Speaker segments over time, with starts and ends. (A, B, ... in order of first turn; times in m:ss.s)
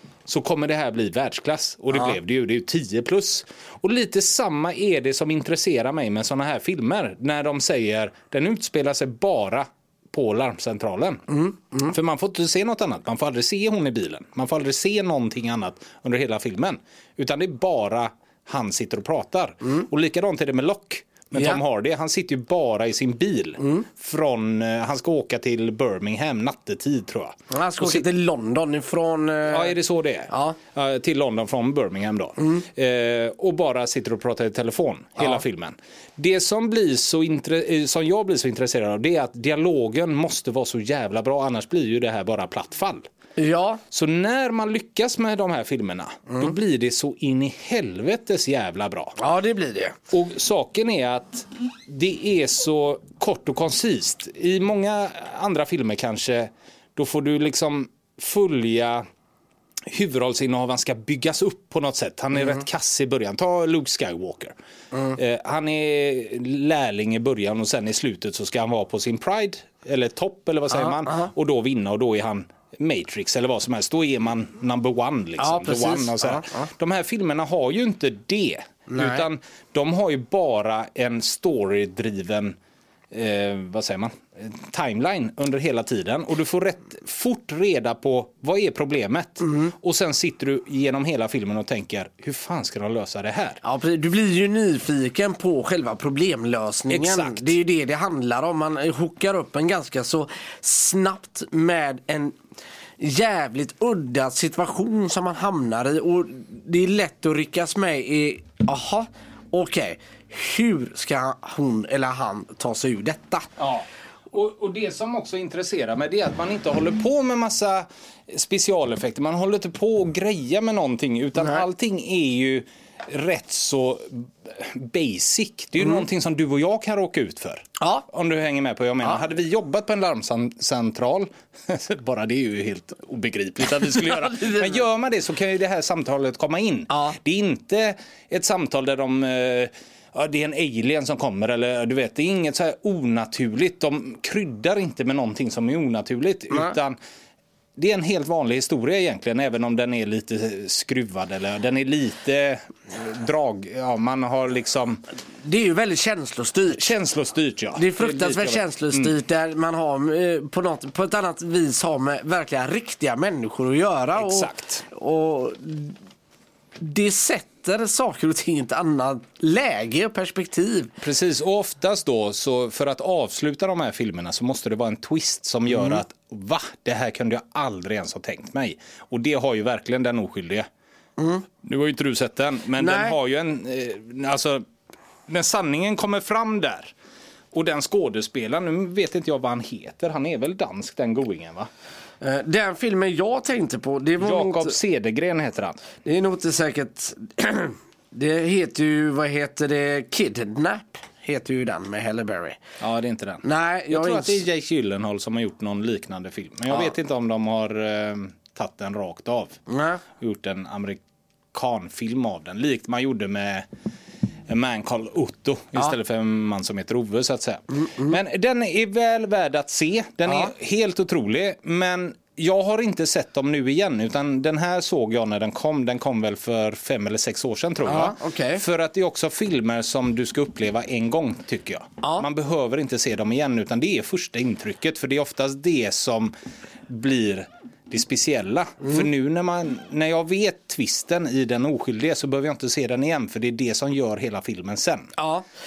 0:00.3-0:11.2 A
0:11.3-0:11.9 B
0:11.8-0:28.1 A
0:21.4-0:21.6 B
0:23.6-0:23.9 B
0:27.5-0:29.8 B
0:29.5-0:43.1 A
0:30.3-0:30.6 B
0:43.4-0:43.8 B
0:43.9-0:49.2 A
0:49.2-0:50.0 B
0:50.1-0:59.0 A
0:59.9-1:04.6 A
1:05.1-1:22.6 A
1:10.8-1:11.3 B
1:15.4-1:16.7 B
1:18.9-1:19.3 B
1:23.1-1:33.6 A
1:29.4-1:29.7 B
1:33.6-1:42.4 B
1:36.9-1:37.6 A
1:43.0-1:53.5 B
1:53.6-2:27.0 A
2:07.8-2:08.0 B
2:13.9-2:14.8 B
2:16.9-2:17.2 B
2:27.8-2:35.0 A
2:35.4-2:37.0 B
2:36.7-2:39.1 A
2:37.8-2:46.0 B
2:44.2-2:44.8 A
2:46.8-2:50.9 B
2:51.0-3:00.7 A
2:55.7-2:56.0 B
3:01.2-3:01.4 B
3:01.6-3:04.6 A
3:02.8-3:03.2 B
3:05.3-3:06.9 A
3:07.5-3:11.7 A
3:12.2-3:14.8 B
3:14.2-3:15.8 A
3:16.0-3:22.6 B
3:22.8-3:29.6 A
3:23.4-3:24.4 B
3:29.7-3:30.0 B
3:30.2-3:31.0 A
3:31.5-3:33.7 A
3:34.5-3:56.3 A
3:37.8-3:38.1 B
3:40.3-3:40.5 B
3:47.8-3:48.6 B
3:56.9-4:05.1 A
4:05.2-4:05.4 B